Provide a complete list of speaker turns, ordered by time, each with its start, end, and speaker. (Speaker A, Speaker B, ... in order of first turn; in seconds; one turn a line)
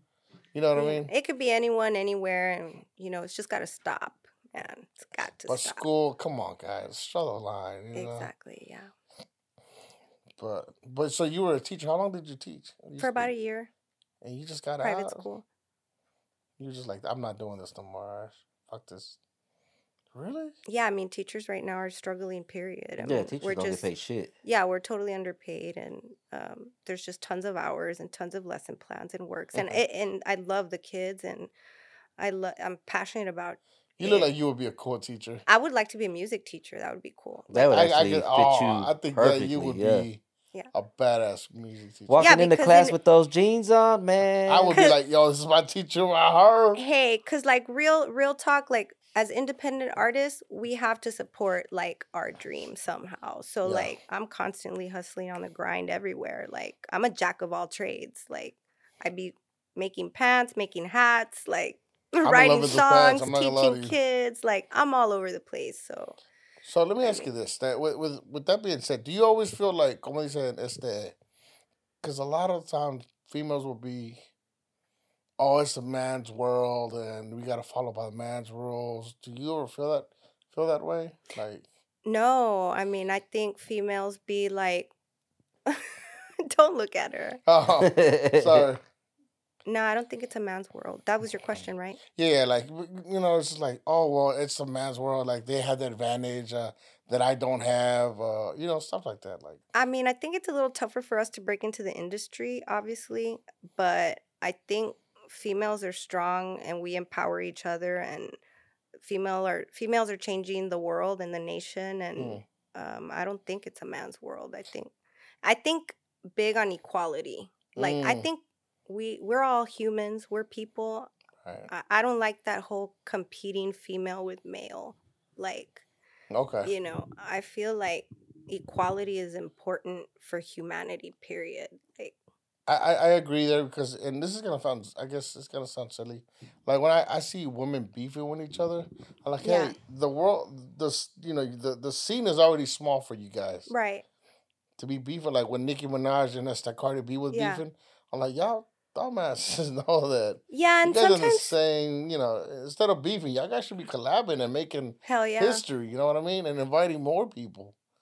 Speaker A: 0.5-1.1
Speaker B: 0.7-5.8
Speaker A: 5.5-8.3
Speaker B: 7.9-8.9
Speaker A: 10.4-13.3
Speaker B: 13.0-13.7
Speaker A: 14.2-15.2
Speaker B: 14.8-15.4
Speaker A: 16.6-19.2
Speaker A: 20.1-20.5
Speaker B: 20.6-23.9
Speaker C: 23.0-24.3
Speaker B: 24.4-31.5
Speaker B: 32.2-34.3
Speaker A: 34.0-35.4
Speaker B: 35.5-37.6
Speaker C: 37.5-40.1
Speaker A: 37.5-40.2
Speaker A: 40.7-42.3
Speaker C: 42.1-44.8
Speaker B: 42.2-43.0
Speaker A: 44.5-46.8
Speaker B: 46.8-66.2
Speaker A: 53.6-53.9
Speaker A: 62.2-64.0
Speaker A: 66.6-71.2
Speaker B: 67.0-67.3
Speaker A: 72.0-74.2
Speaker A: 75.4-81.6
Speaker B: 82.0-84.9
Speaker B: 85.7-87.4
Speaker A: 87.5-88.8
Speaker C: 87.8-88.7
Speaker B: 89.7-92.0
Speaker A: 92.1-99.6
Speaker B: 99.7-108.4
Speaker B: 109.0-114.9
Speaker A: 112.2-112.4
Speaker B: 115.4-121.1
Speaker A: 117.7-118.3
Speaker A: 121.4-121.7
Speaker B: 121.7-125.8
Speaker A: 126.3-126.7
Speaker B: 126.6-132.1
Speaker A: 132.7-143.7
Speaker B: 139.4-139.8
Speaker B: 143.7-144.0
Speaker A: 144.8-157.7
Speaker B: 147.3-147.6
Speaker B: 150.5-151.6
Speaker B: 155.0-155.6